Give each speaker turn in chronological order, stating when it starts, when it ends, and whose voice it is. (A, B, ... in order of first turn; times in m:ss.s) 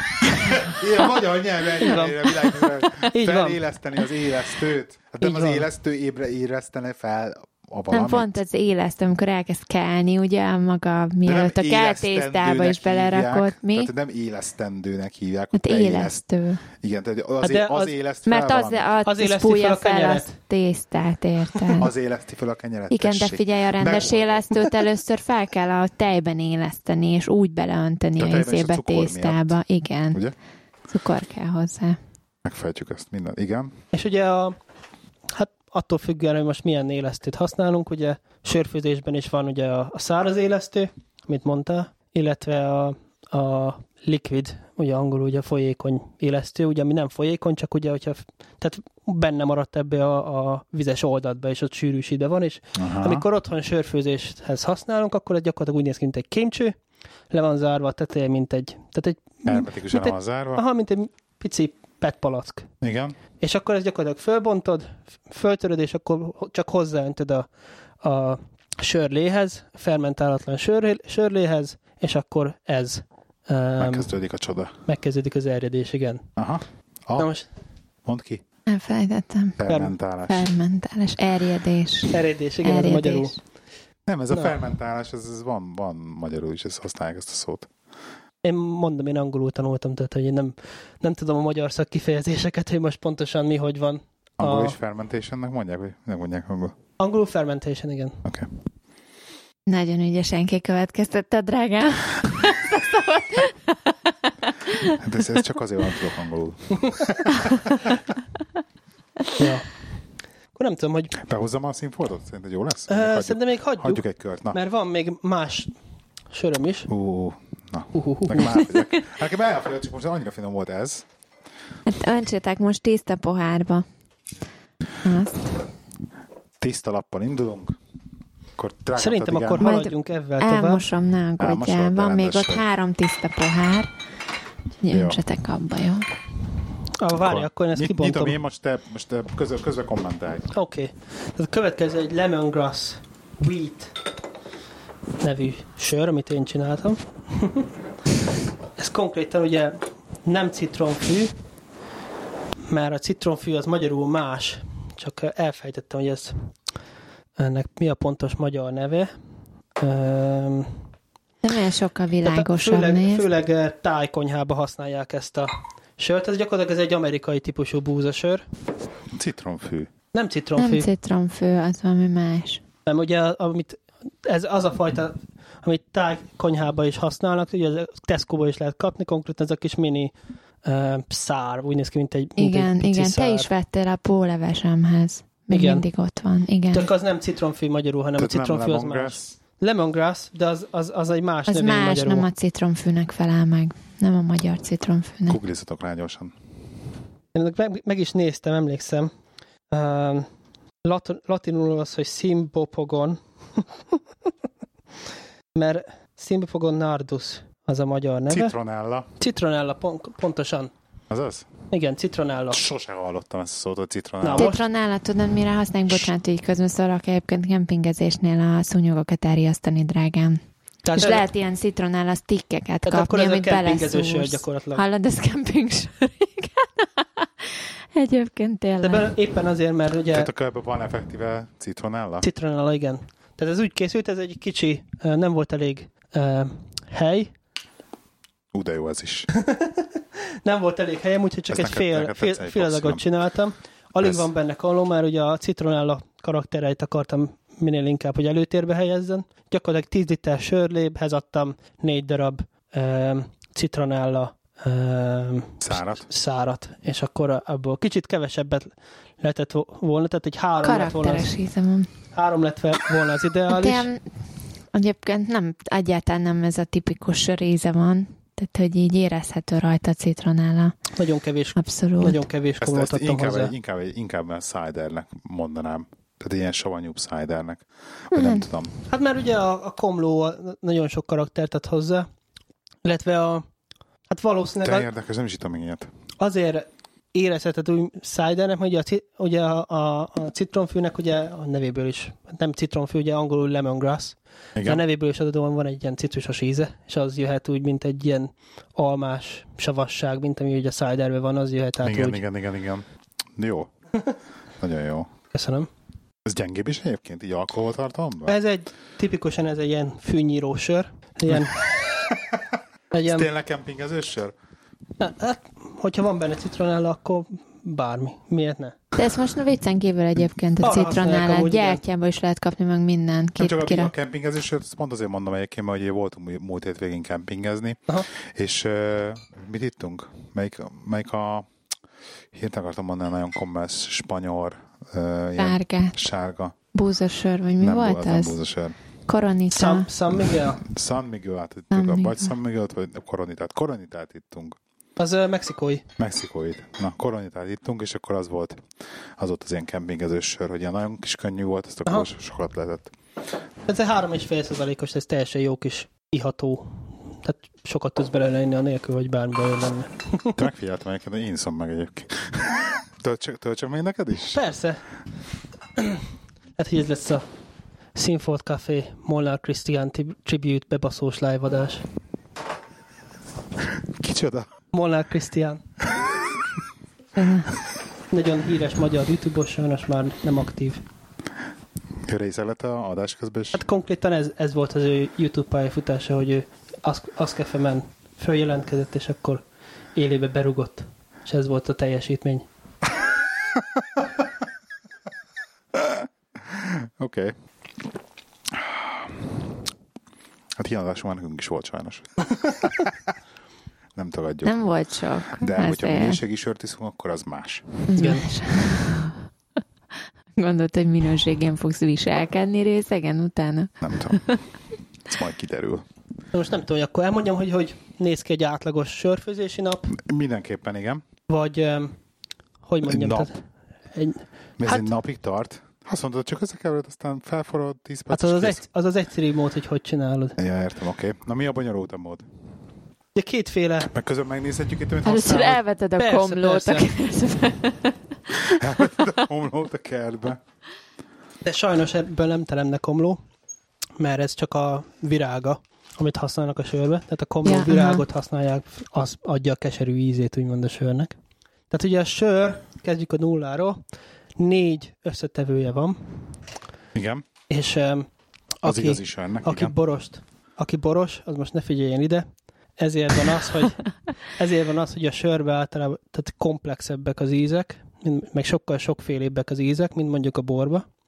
0:00.5-0:08.3 A
0:01.8-0:02.3 B
0:03.1-0:03.6 B
0:05.2-0:05.7 B
0:07.9-0:13.9 C
0:11.2-0:16.2 A
0:15.5-0:16.6 C
0:16.7-0:18.9 A
0:17.4-0:17.9 B
0:18.3-0:21.9 C
0:19.0-0:20.4 B
0:21.8-0:24.6 A
0:22.9-0:30.2 C
0:28.2-0:29.6 A
0:30.9-0:32.0 C
0:32.4-0:33.8 A
0:33.9-0:34.6 B
0:35.3-0:56.8 B
0:52.8-0:53.2 A
0:57.3-1:02.7 B
0:59.5-1:00.6 A
1:02.8-1:03.2 A
1:03.4-1:07.5 B
1:08.0-1:14.1 B
1:13.8-1:14.7 A
1:14.8-1:16.3 B
1:16.4-1:17.3 A
1:17.2-1:17.5 B
1:18.0-1:18.4 A
1:18.7-1:19.6 C
1:19.6-1:20.5 A
1:19.7-1:19.9 B
1:20.3-1:23.4 C
1:22.1-1:23.4 B
1:24.1-1:27.7 A
1:28.4-1:34.8 B
1:34.4-1:36.8 A
1:37.0-1:38.2 B
1:39.7-1:43.8 C
1:44.7-1:45.0 C
1:45.0-1:47.6 A
1:49.4-1:49.7 B
1:50.6-1:51.2 B
1:51.2-1:54.6 A
1:52.9-1:55.7 B
1:56.3-1:56.9 B
1:56.9-2:01.1 A
1:57.9-1:58.7 B
2:01.9-2:03.8 C
2:05.0-2:05.5 C
2:06.6-2:07.8 A
2:08.6-2:09.7 A
2:09.0-2:10.8 B
2:09.6-2:13.9 C
2:11.4-2:12.6 A
2:14.8-2:16.1 C
2:14.9-2:15.2 A
2:17.0-2:18.4 B
2:17.1-2:20.5 A
2:20.5-2:24.0 B
2:25.2-2:27.7 B
2:28.8-2:31.3 B
2:32.7-2:36.5 B
2:37.4-2:39.1 B
2:39.8-2:40.7 B
2:41.4-2:43.3 C
2:42.2-2:48.4 B
2:49.1-2:49.9 A
2:50.1-2:50.9 B
2:50.6-2:52.6 C
2:52.9-3:00.1 B
3:00.6-3:03.5 B
3:02.4-3:06.9 C
3:05.5-3:05.8 B
3:06.7-3:12.3 B
3:08.2-3:09.4 A
3:11.5-3:15.4 C
3:15.3-3:16.3 A
3:17.3-3:19.1 B
3:19.7-3:20.3 B
3:20.8-3:23.7 B
3:25.6-3:28.6 B
3:28.3-3:29.1 A
3:29.2-3:30.7 B
3:31.1-3:31.5 A
3:31.7-3:32.6 B
3:32.5-3:34.5 A
3:34.2-3:34.6 B
3:34.4-3:40.4 C
3:40.8-3:41.3 B
3:41.0-3:47.3 C
3:42.8-3:44.8 B
3:47.9-3:49.1 C
3:48.8-3:50.3 B
3:50.1-3:52.3 A
3:52.2-3:57.3 B
3:58.5-3:59.3 A
3:59.4-3:59.9 B
4:00.4-4:21.3 B
4:01.5-4:03.1 A
4:04.0-4:04.3 A
4:15.6-4:16.1 A
4:20.6-4:21.9 C
4:22.1-4:23.9 B
4:23.5-4:24.0 C
4:24.7-4:30.8 C
4:31.0-4:33.5 B
4:31.6-4:32.2 C
4:32.6-4:38.7 A
4:38.1-4:38.5 C
4:38.9-4:42.1 B
4:42.8-4:43.5 B
4:44.1-4:44.9 B
4:44.6-4:45.9 A
4:46.2-5:02.2 B
4:54.6-4:54.8 A
5:01.8-5:02.8 A
5:03.4-5:03.7 A
5:04.6-5:05.1 A
5:05.3-5:05.7 B
5:06.3-5:08.4 A
5:08.3-5:11.7 B
5:11.3-5:14.3 A
5:12.9-5:13.3 B
5:15.0-5:18.8 B
5:19.0-5:23.9 C
5:20.6-5:21.8 B
5:23.4-5:31.5 A
5:32.3-5:36.6 A
5:35.4-5:36.0 C
5:36.7-5:38.4 C
5:37.6-5:38.8 A
5:39.1-5:39.9 C
5:39.5-5:40.6 B
5:40.6-5:44.6 A
5:41.7-5:42.3 C
5:45.0-5:45.8 B
5:46.0-5:48.6 A
5:49.2-5:52.9 A
5:53.7-6:00.4 B
6:00.3-6:04.4 A
6:04.3-6:04.8 B
6:05.8-6:06.0 B
6:06.6-6:07.2 B
6:08.0-6:11.9 B
6:13.8-6:14.5 A
6:14.7-6:15.6 B
6:17.2-6:17.5 C
6:18.1-6:20.8 B
6:22.0-6:23.6 A
6:23.5-6:29.4 B
6:30.0-6:32.5 B
6:33.6-6:34.0 A
6:35.7-6:37.4 A
6:38.5-6:39.2 A
6:40.6-6:43.0 A
6:44.0-6:44.6 A
6:44.4-6:46.2 C
6:45.4-6:47.8 A
6:47.9-6:49.2 C
6:48.0-6:48.3 B
6:50.4-6:54.4 C
6:53.8-6:54.3 A
6:55.1-6:55.8 A
6:56.3-6:59.9 B
6:59.9-7:01.0 A
7:01.3-7:02.0 B
7:02.6-7:03.4 B
7:02.9-7:03.3 A
7:03.9-7:04.9 B
7:04.6-7:08.6 A
7:08.1-7:10.4 B
7:10.4-7:12.3 A
7:13.2-7:13.9 B
7:13.9-7:15.6 A
7:15.0-7:18.6 C
7:16.0-7:16.9 B
7:18.4-7:20.4 A
7:21.4-7:23.2 B
7:24.0-7:31.2 B
7:27.4-7:28.0 C
7:31.7-7:33.8 B
7:34.4-7:36.2 B
7:37.0-7:37.3 A
7:37.5-7:38.1 B
7:38.6-7:42.3 B
7:38.6-7:39.8 A
7:42.8-7:50.8 B